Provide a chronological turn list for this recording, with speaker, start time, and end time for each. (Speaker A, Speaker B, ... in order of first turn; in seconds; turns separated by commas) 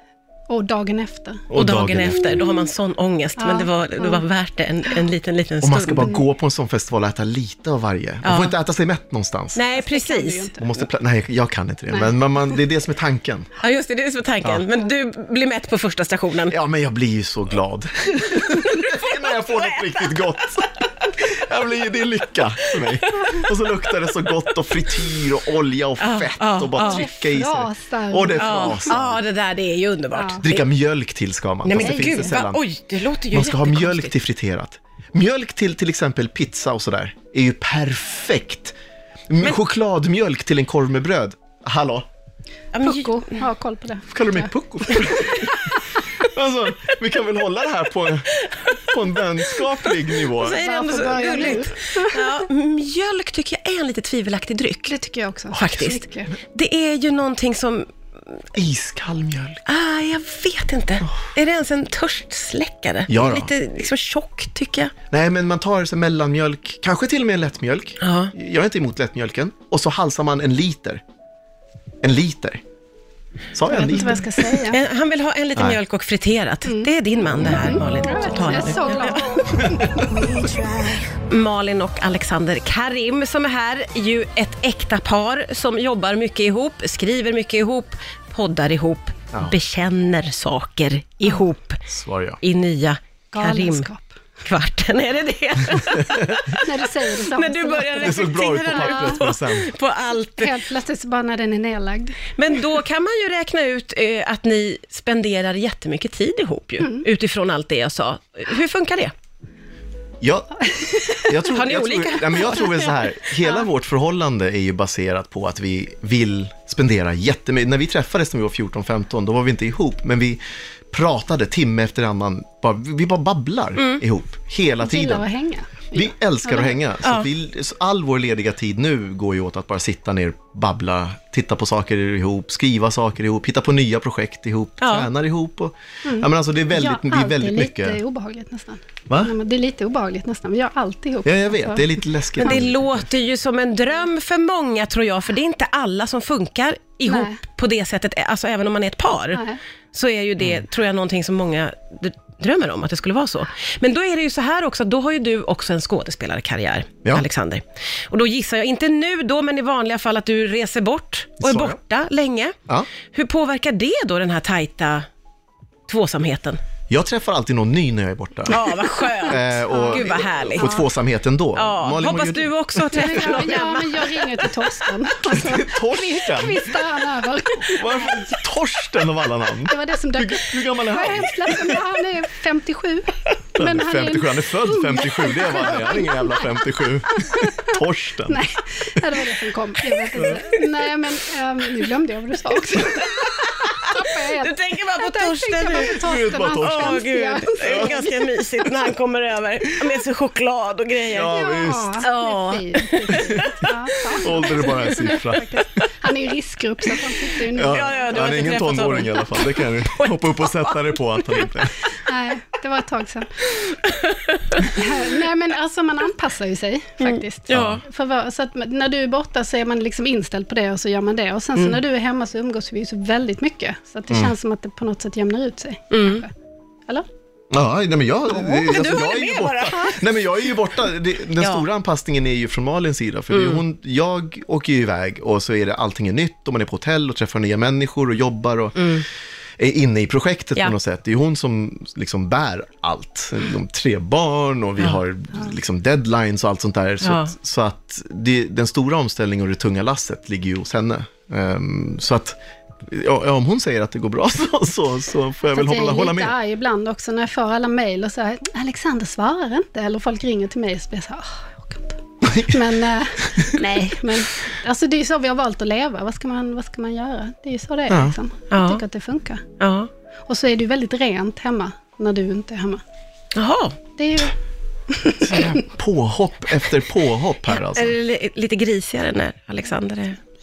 Speaker A: 0.5-1.5, Speaker B: 1.5-2.4, Speaker C: 1.5-6.2, Speaker A: 2.2-2.6, Speaker A: 3.4-4.2, Speaker B: 5.6-9.6, Speaker C: 8.2-8.5, Speaker C: 9.5-10.5, Speaker A: 9.7-10.6, Speaker B: 10.6-13.5, Speaker A: 11.9-12.2, Speaker C: 13.6-16.6, Speaker B: 16.5-29.2, Speaker C: 18.5-20.8, Speaker C: 22.9-23.5, Speaker C: 26.0-27.0, Speaker A: 26.8-28.9, Speaker C: 28.4-30.6, Speaker A: 30.1-30.4, Speaker B: 30.4-32.6, Speaker C: 31.6-34.2, Speaker A: 31.8-32.4, Speaker B: 33.3-38.7, Speaker B: 39.3-42.0, Speaker C: 42.7-43.4, Speaker A: 42.8-45.0, Speaker B: 44.1-45.5, Speaker C: 45.0-45.5, Speaker B: 46.2-51.6, Speaker C: 48.4-49.6, Speaker C: 50.3-54.9, Speaker A: 50.4-52.4, Speaker A: 54.9-56.3, Speaker C: 55.5-57.9, Speaker B: 58.5-59.6, Speaker C: 59.7-64.9, Speaker B: 63.1-63.5, Speaker B: 65.1-71.0, Speaker C: 68.0-68.3, Speaker B: 72.0-72.6, Speaker B: 73.5-74.3, Speaker A: 73.7-74.8, Speaker C: 74.7-79.4, Speaker B: 77.4-77.7, Speaker A: 77.5-80.2, Speaker C: 81.2-91.8, Speaker B: 91.9-92.4, Speaker C: 92.4-93.9, Speaker A: 93.3-94.1, Speaker C: 94.4-96.5, Speaker B: 96.1-96.4, Speaker A: 96.4-99.2, Speaker C: 97.3-100.5, Speaker B: 98.0-99.7, Speaker A: 100.4-102.2, Speaker C: 102.4-109.1, Speaker B: 110.2-125.2, Speaker A: 110.8-111.3, Speaker C: 111.5-113.1, Speaker C: 123.8-124.0, Speaker A: 124.8-126.8, Speaker B: 125.9-138.0, Speaker C: 127.0-127.3, Speaker C: 134.8-135.1, Speaker A: 136.0-142.6, Speaker B: 141.2-143.1, Speaker C: 142.4-162.5, Speaker A: 147.1-147.4, Speaker A: 149.3-149.6, Speaker B: 161.4-161.8, Speaker C: 163.1-165.1, Speaker C: 165.9-166.6, Speaker B: 166.9-168.7, Speaker C: 168.5-170.7, Speaker B: 169.2-173.2, Speaker A: 169.3-170.8, Speaker C: 171.5-174.5, Speaker A: 172.9-178.2, Speaker B: 175.2-176.7, Speaker B: 177.7-181.8, Speaker A: 179.7-193.1, Speaker B: 183.6-188.4, Speaker B: 190.2-190.4, Speaker C: 190.2-190.6, Speaker C: 192.7-201.4, Speaker A: 193.8-198.3, Speaker B: 195.9-197.1, Speaker B: 197.6-198.1, Speaker B: 201.1-202.0, Speaker A: 201.3-208.6, Speaker C: 202.0-205.1, Speaker B: 203.1-203.5, Speaker B: 204.2-205.7, Speaker B: 207.5-211.7, Speaker C: 207.5-211.5, Speaker A: 212.0-213.3, Speaker C: 213.5-214.7, Speaker A: 214.7-226.3, Speaker C: 217.0-217.8, Speaker B: 217.5-217.8, Speaker C: 225.9-226.2, Speaker B: 227.5-239.0, Speaker C: 228.3-230.3, Speaker C: 231.4-231.6, Speaker C: 233.3-233.6, Speaker C: 238.8-239.1, Speaker B: 239.6-252.3, Speaker C: 247.0-247.3, Speaker B: 252.9-256.4, Speaker A: 255.5-269.4, Speaker B: 262.2-262.6, Speaker C: 263.6-264.1, Speaker B: 267.9-268.1, Speaker C: 268.5-268.8, Speaker C: 269.6-269.9, Speaker A: 270.3-272.8, Speaker C: 273.3-273.8, Speaker A: 274.0-274.3, Speaker A: 274.9-275.6, Speaker B: 275.2-277.9, Speaker C: 277.5-280.2